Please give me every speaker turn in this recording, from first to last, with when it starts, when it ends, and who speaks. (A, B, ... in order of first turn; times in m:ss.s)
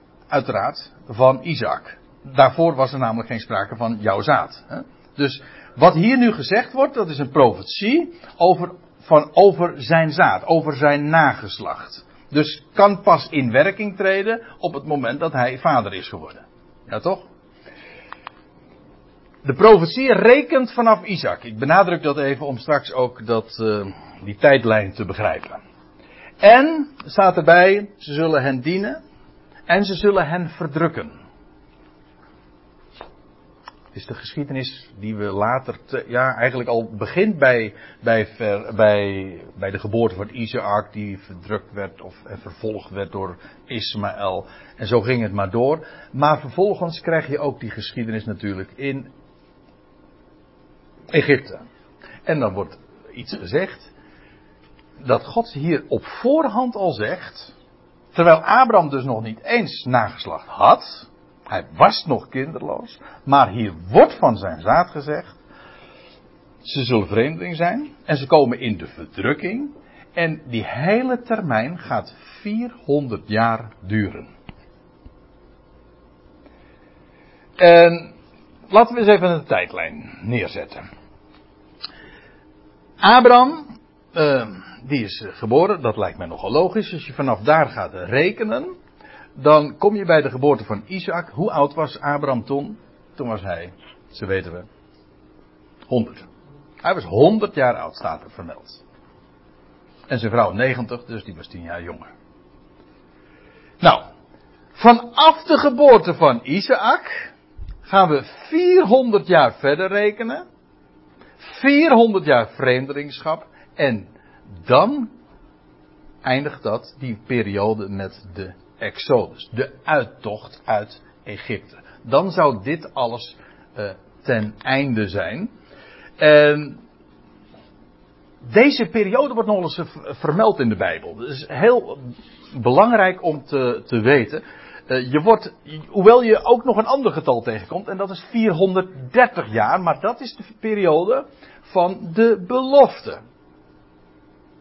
0:00.3-0:17.2 A
0:19.4-0:25.6 A
0:26.4-0:29.0 A
0:29.7-0:31.1 A
0:33.9-0:49.1 A
0:51.1-0:51.6 A
0:52.2-0:53.9 A
0:55.0-0:57.5 A
0:58.1-1:05.3 A
1:06.6-1:14.3 A
1:17.6-1:18.1 A
1:18.7-1:20.8 A
1:23.0-1:28.7 A
1:29.4-1:34.7 A
1:35.9-1:36.2 A
1:36.8-1:38.8 A
1:40.1-1:42.1 A
1:44.8-1:47.3 A
1:47.8-1:50.4 A
1:51.4-1:54.1 A
1:54.6-1:55.1 A
1:56.2-2:05.5 A
2:06.2-2:06.8 A
2:08.4-2:23.2 A